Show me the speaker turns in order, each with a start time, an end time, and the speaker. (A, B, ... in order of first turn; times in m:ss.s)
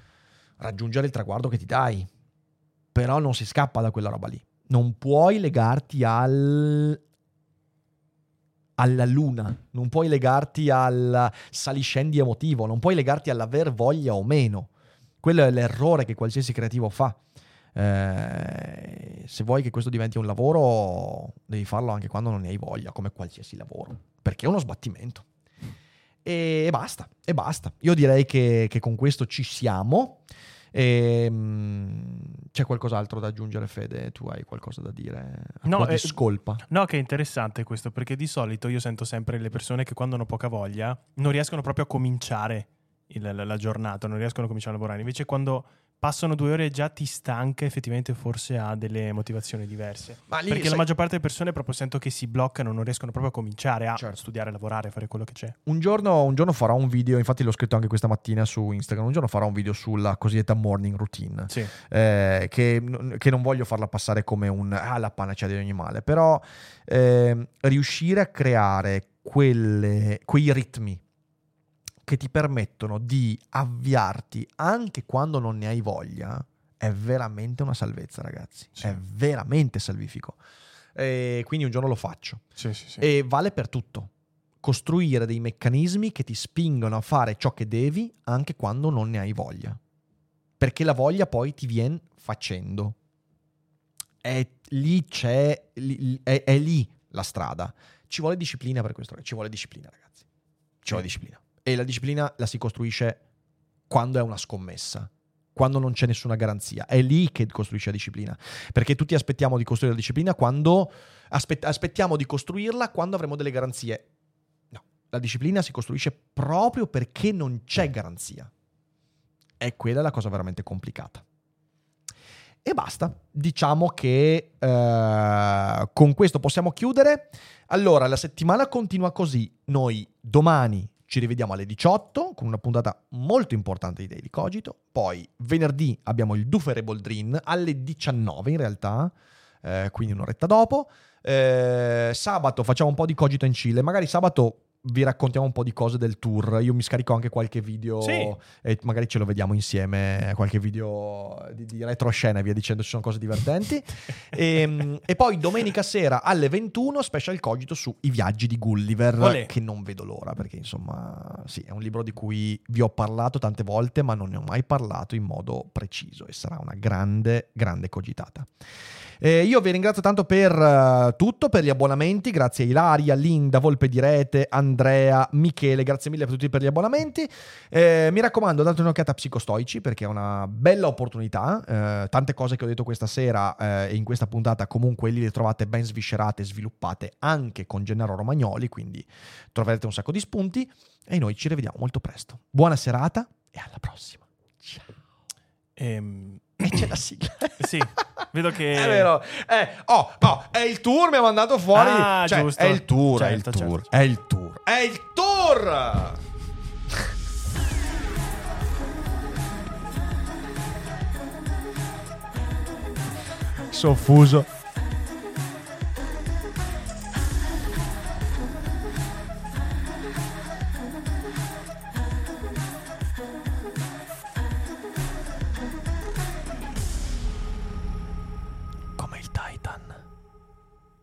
0:00.6-0:02.1 A
0:02.9-0:07.0 A
0:08.8-0:14.7 A
0:15.2-0:17.2 A
0:17.7-0:25.2 A
0:26.2-0:30.2 A
0:30.7-0:36.6 A
0:35.6-0:55.6 B
0:50.3-0:50.9 A
0:55.6-1:11.0 A
1:12.0-1:20.4 A
1:20.9-1:22.4 A
1:22.6-1:23.0 B
1:23.0-1:24.1 A
1:24.6-1:29.8 A
1:30.6-1:32.9 A
1:34.2-1:40.2 A
1:40.8-1:43.2 A
1:43.9-1:54.1 A
1:54.7-1:58.5 A
1:59.6-2:01.2 A
2:02.6-2:48.5 A
2:28.0-2:28.3 B
2:39.2-2:39.5 B
2:49.2-3:14.9 A
3:15.8-3:16.9 B
3:16.6-3:26.2 A
3:17.6-3:19.1 B
3:21.7-3:23.9 B
3:33.7-3:34.5 A
3:49.0-3:50.0 A